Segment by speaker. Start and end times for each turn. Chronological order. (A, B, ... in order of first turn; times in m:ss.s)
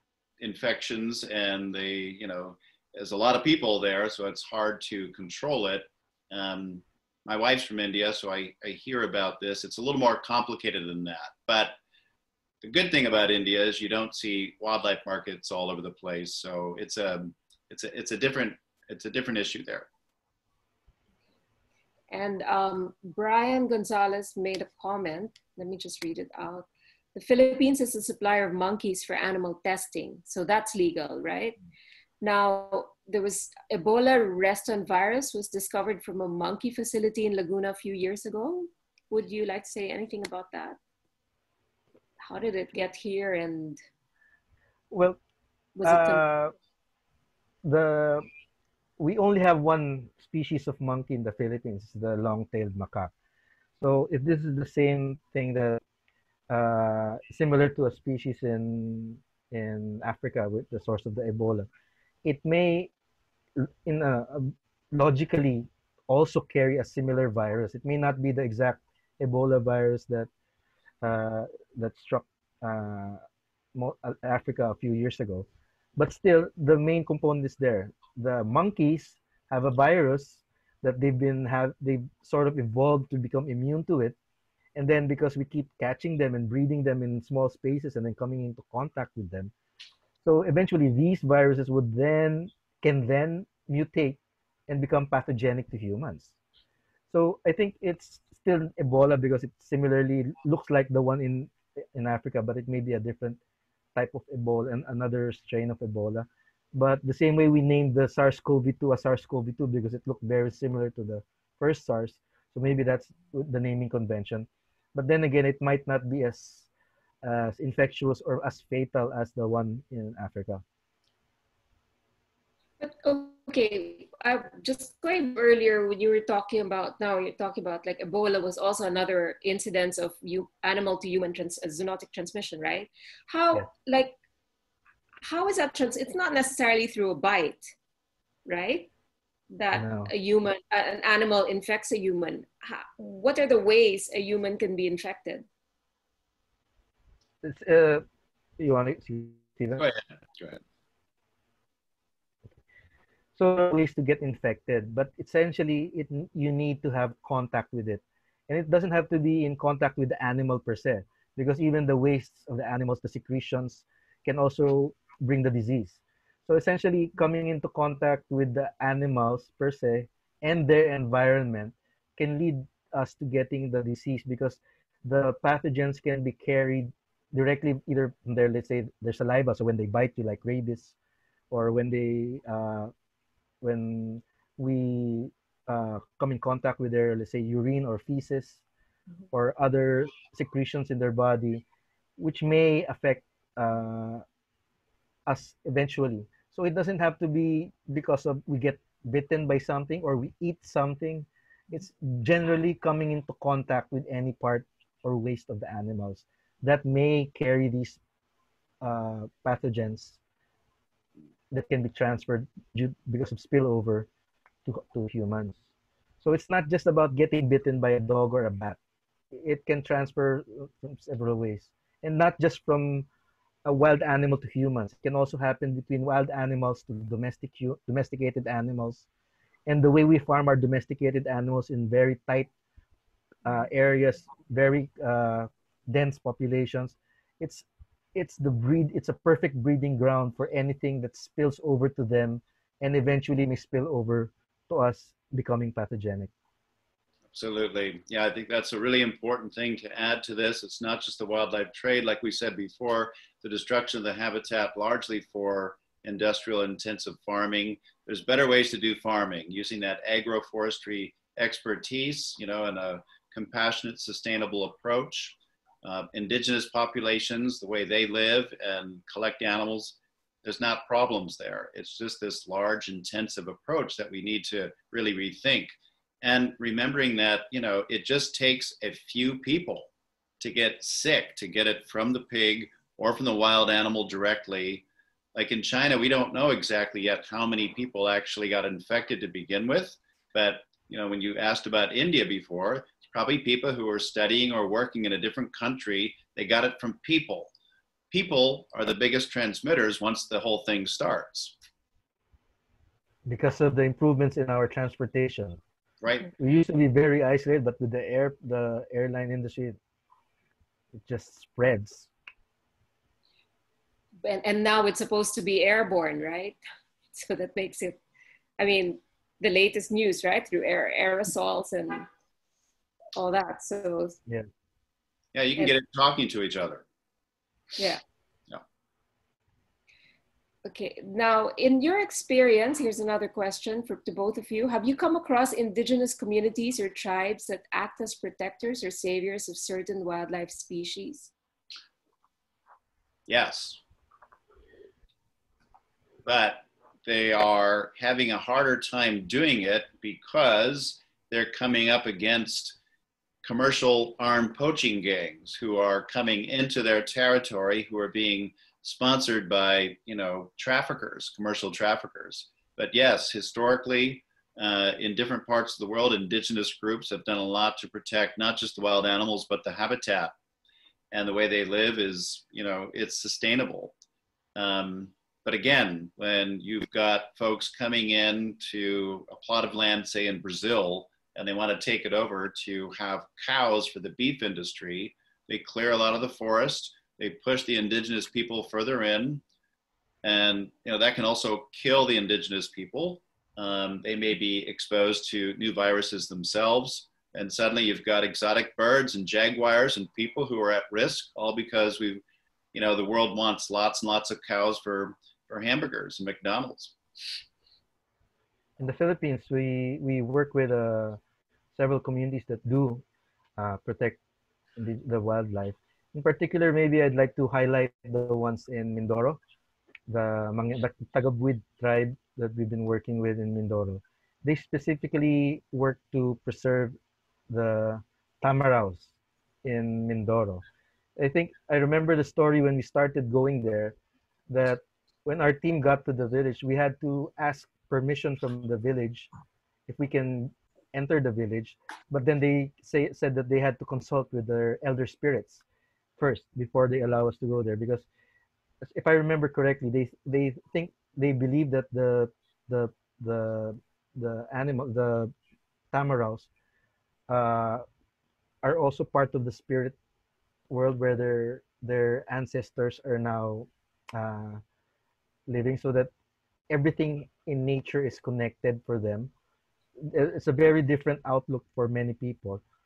0:00.4-0:11.8 A
0:12.6-0:19.9 A
0:22.1-0:31.6 B
0:32.2-0:40.8 B
0:42.2-0:43.8 B
0:44.9-0:45.2 C
0:45.8-0:46.2 B
0:45.8-0:46.5 C
0:47.6-0:48.3 C
0:49.0-0:53.1 C
0:53.8-0:55.8 C
0:56.5-1:01.7 C
1:02.2-1:02.9 C
1:03.6-1:10.3 C
1:11.0-1:13.2 C
1:13.7-1:24.1 C
1:24.8-1:29.5 C
1:30.2-1:36.3 C
1:37.1-1:43.4 C
1:43.9-1:56.7 C
1:57.2-2:00.6 C
2:02.8-2:14.2 B
2:15.2-2:17.7 B
2:18.4-2:18.9 B
2:19.5-2:25.4 B
2:19.7-2:20.1 C
2:27.4-2:28.0 C
2:28.6-2:29.8 C
2:29.8-2:30.6 A
2:33.4-3:00.9 C
3:01.5-3:02.9 C
3:03.6-3:08.6 C
3:09.3-3:11.6 C
3:12.2-3:14.2 C
3:15.3-3:28.0 C
3:28.8-3:30.2 C
3:31.5-3:34.1 C
3:34.6-3:35.6 C
3:36.2-3:38.8 C
3:39.3-3:43.1 C
3:43.6-3:49.0 C
3:49.7-3:52.5 C
3:53.4-4:06.3 C
4:07.3-4:44.8 A
4:45.3-4:57.5 A
4:58.1-5:01.5 A
5:03.2-5:05.6 C
5:06.0-5:06.3 A
5:06.4-5:09.8 C
5:10.9-5:12.1 C
5:14.2-5:16.6 B
5:17.1-5:18.0 B
5:18.6-5:22.1 B
5:23.2-5:24.2 B
5:25.3-5:26.8 A
5:27.8-5:28.0 B
5:30.6-5:41.3 B
5:43.3-5:43.8 A
5:46.2-5:52.8 A
5:53.4-6:10.3 A
6:11.1-6:13.9 A
6:14.6-6:29.4 A
6:30.2-6:42.2 A
6:42.7-6:46.9 A
6:48.8-6:51.2 C
6:51.7-6:53.0 C
6:53.6-6:54.2 C
6:54.8-6:59.4 C
7:00.1-7:07.0 C
7:07.5-7:09.1 C
7:09.6-7:10.6 C
7:11.2-7:14.0 C
7:14.5-7:19.3 C
7:19.9-7:25.6 C
7:26.2-7:28.0 C
7:28.8-7:35.3 C
7:35.9-7:36.5 C
7:37.3-7:37.8 C
7:38.6-7:40.0 C
7:40.7-7:44.6 C
7:45.5-7:46.1 C
7:46.7-7:49.3 C
7:50.0-7:52.6 C